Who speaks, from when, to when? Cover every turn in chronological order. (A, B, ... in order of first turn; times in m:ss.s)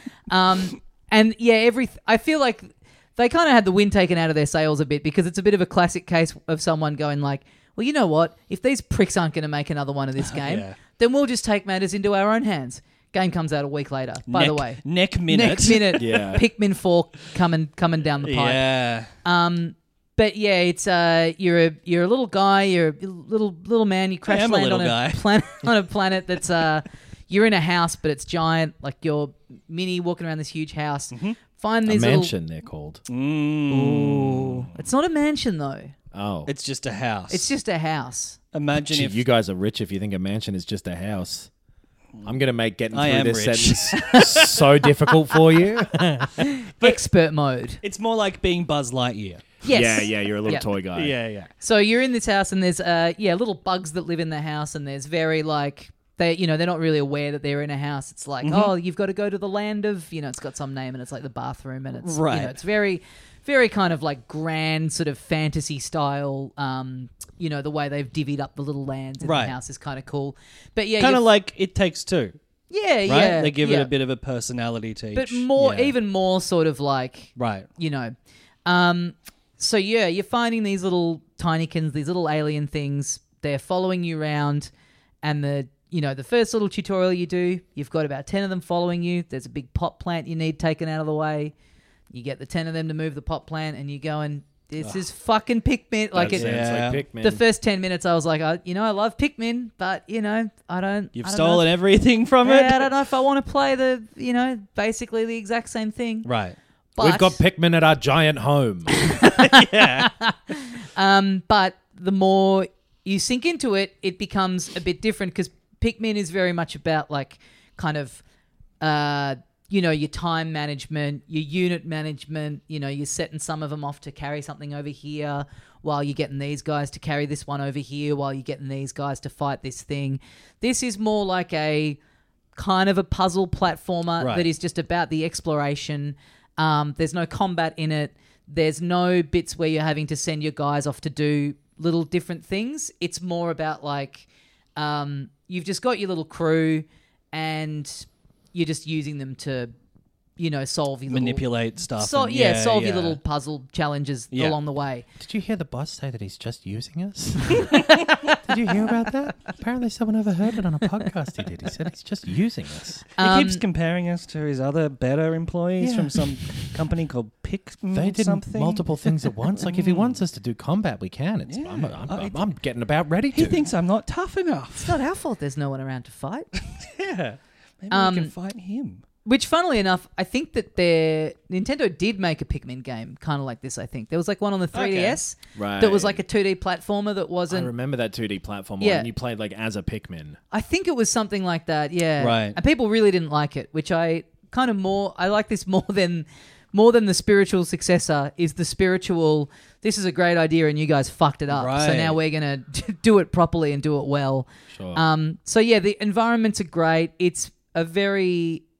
0:00.3-0:18.6 A
0:10.2-0:10.7 B
0:14.3-0:16.1 B
0:16.0-0:16.4 C
0:18.2-0:19.1 B
0:19.2-0:32.3 A
0:24.2-0:25.3 B
0:31.1-0:31.4 B
0:31.8-0:33.0 C
0:33.1-0:34.7 B
0:33.7-0:35.9 A
0:36.1-0:36.5 C
0:36.5-0:37.5 B
0:37.3-0:38.4 A
0:38.5-0:39.2 B
0:38.8-0:41.5 C
0:42.2-0:46.4 C
0:42.9-0:44.7 B
0:46.4-0:47.8 A
0:47.8-0:49.4 B
0:49.6-0:50.7 A
0:49.7-0:51.1 C
0:50.9-0:51.5 B
0:51.6-1:11.2 A
0:58.4-0:58.7 B
1:02.0-1:02.6 B
1:09.2-1:09.5 B
1:11.0-1:12.4 B
1:12.7-1:13.9 A
1:13.1-1:15.9 B
1:15.1-1:18.1 A
1:17.4-1:17.7 B
1:18.6-1:24.7 A
1:25.2-1:31.5 A
1:32.1-1:36.5 A
1:36.1-1:37.4 C
1:36.4-1:37.0 B
1:37.2-1:41.7 A
1:41.1-1:42.9 B
1:42.4-1:46.3 A
1:46.2-1:46.6 B
1:47.0-1:47.4 A
1:47.0-1:49.0 C
1:49.1-1:58.2 A
1:49.2-1:50.1 B
1:58.8-2:12.0 A
2:12.6-2:29.7 A
2:14.2-2:14.5 B
2:30.4-2:31.4 A
2:31.1-2:33.2 B
2:32.0-2:35.0 A
2:35.2-2:43.1 C
2:37.6-2:38.2 B
2:43.2-2:50.2 B
2:43.2-2:43.6 A
2:45.8-2:46.3 C
2:47.9-2:53.7 C
2:51.5-2:52.4 B
2:53.3-2:55.0 B
2:54.8-2:56.6 A
2:56.7-2:59.0 B
2:57.9-2:58.3 A
2:59.2-3:07.7 A
3:04.7-3:05.2 B
3:05.6-3:06.2 C
3:07.5-3:10.4 C
3:08.8-3:09.1 A
3:10.5-3:28.6 A
3:12.2-3:12.6 B
3:21.5-3:22.2 B
3:24.7-3:25.0 C